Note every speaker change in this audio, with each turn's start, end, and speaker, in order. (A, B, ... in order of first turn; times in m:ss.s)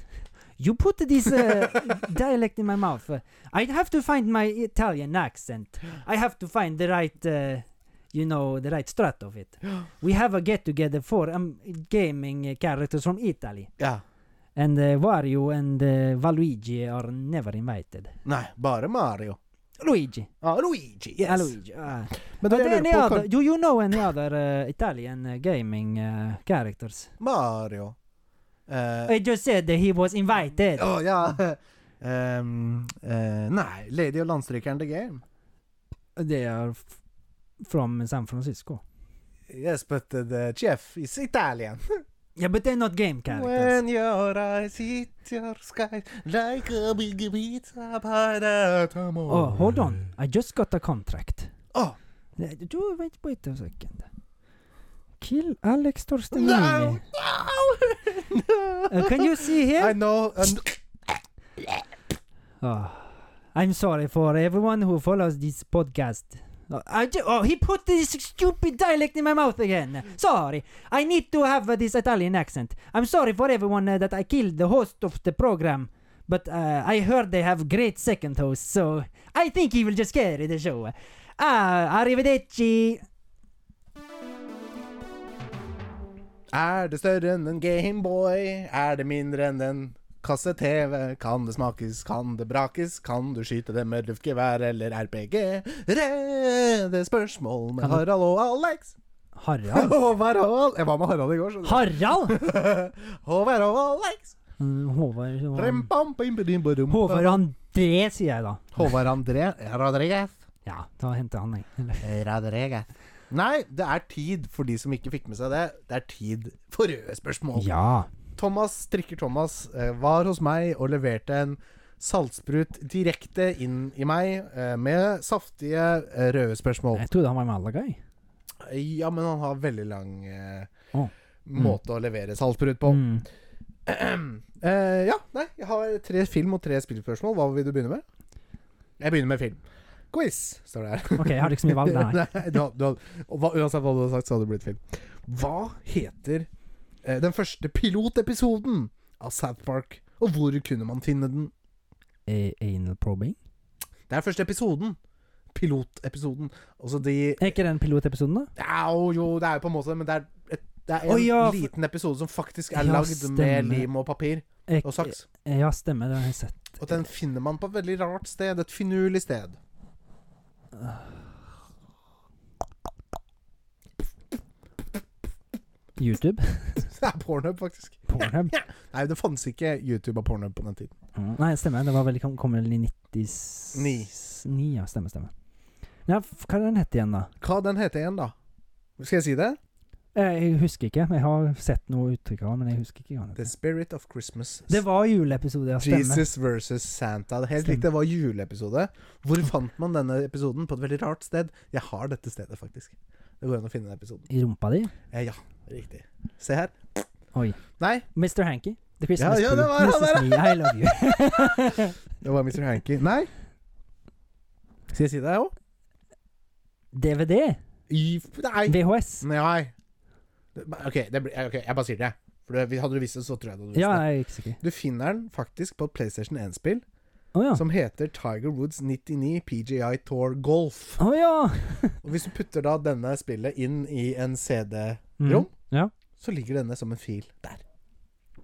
0:00.6-0:13.7 A
0:01.3-0:01.9 B
0:14.6-0:18.2 A
0:18.2-0:19.4 B
0:19.8-0:20.3 A
0:20.4-0:21.6 B
0:21.2-0:27.1 A
0:22.4-0:23.3 B
0:27.2-0:28.0 B
0:28.7-0:29.1 B
0:29.0-0:30.9 A
0:30.8-0:35.2 B
0:36.2-0:36.9 A
0:37.6-0:38.8 A
0:39.5-0:42.0 B
0:42.4-0:43.8 A
0:43.3-0:49.9 B
0:49.2-0:51.5 A
0:52.4-0:54.1 A
0:55.2-0:57.0 A
0:56.3-1:01.8 B
0:58.9-1:00.0 A
1:02.6-1:23.0 A
1:26.5-1:39.0 B
1:37.8-1:38.0 A
1:39.4-1:39.9 A
1:39.7-1:44.4 B
1:41.6-1:42.4 A
1:44.6-1:45.9 A
1:45.5-1:47.4 B
1:46.9-1:49.0 A
1:48.7-1:50.4 B
1:50.6-1:52.1 A
1:52.0-1:57.7 B
1:57.5-1:58.1 A
1:58.4-2:07.0 B
2:06.9-2:08.0 A
2:08.6-2:10.7 B
2:10.9-2:11.8 A
2:11.4-2:13.0 B
2:12.8-2:13.2 A
2:13.8-2:18.0 B
2:19.0-2:26.5 B
2:21.1-2:22.5 A
2:27.0-2:31.5 B
2:32.3-2:33.4 A
2:34.1-2:35.0 B
2:35.5-2:37.6 B
2:37.4-2:38.5 A
2:38.6-2:45.2 B
2:41.0-2:41.7 A
2:42.7-2:43.9 A
2:44.7-2:47.0 A
2:46.8-2:49.6 B
2:50.8-2:51.1 A
2:56.0-2:56.9 A
2:56.8-3:01.0 B
2:58.1-2:58.6 A
3:01.2-3:05.3 A
3:03.7-3:04.1 B
3:06.0-3:07.3 A
3:07.4-3:08.3 B
3:09.0-3:09.6 B
3:10.1-3:13.5 A
3:13.4-3:14.8 B
3:14.7-3:16.3 A
3:15.8-3:24.2 B
3:24.3-3:24.9 A
3:25.1-3:27.0 B
3:27.3-3:27.6 A
3:27.8-3:28.1 B
3:28.1-3:32.0 A
3:29.2-3:33.3 B
3:34.9-3:35.5 B
3:36.9-3:37.6 A
3:37.9-3:39.7 B
3:38.7-3:39.2 A
3:40.5-3:44.1 B
3:43.7-3:44.6 A
3:44.6-3:46.8 B
3:47.3-3:47.6 A
3:47.5-3:51.0 B
3:51.0-3:52.0 A
3:52.0-3:55.5 B
3:55.2-3:55.9 A
3:56.2-3:57.6 B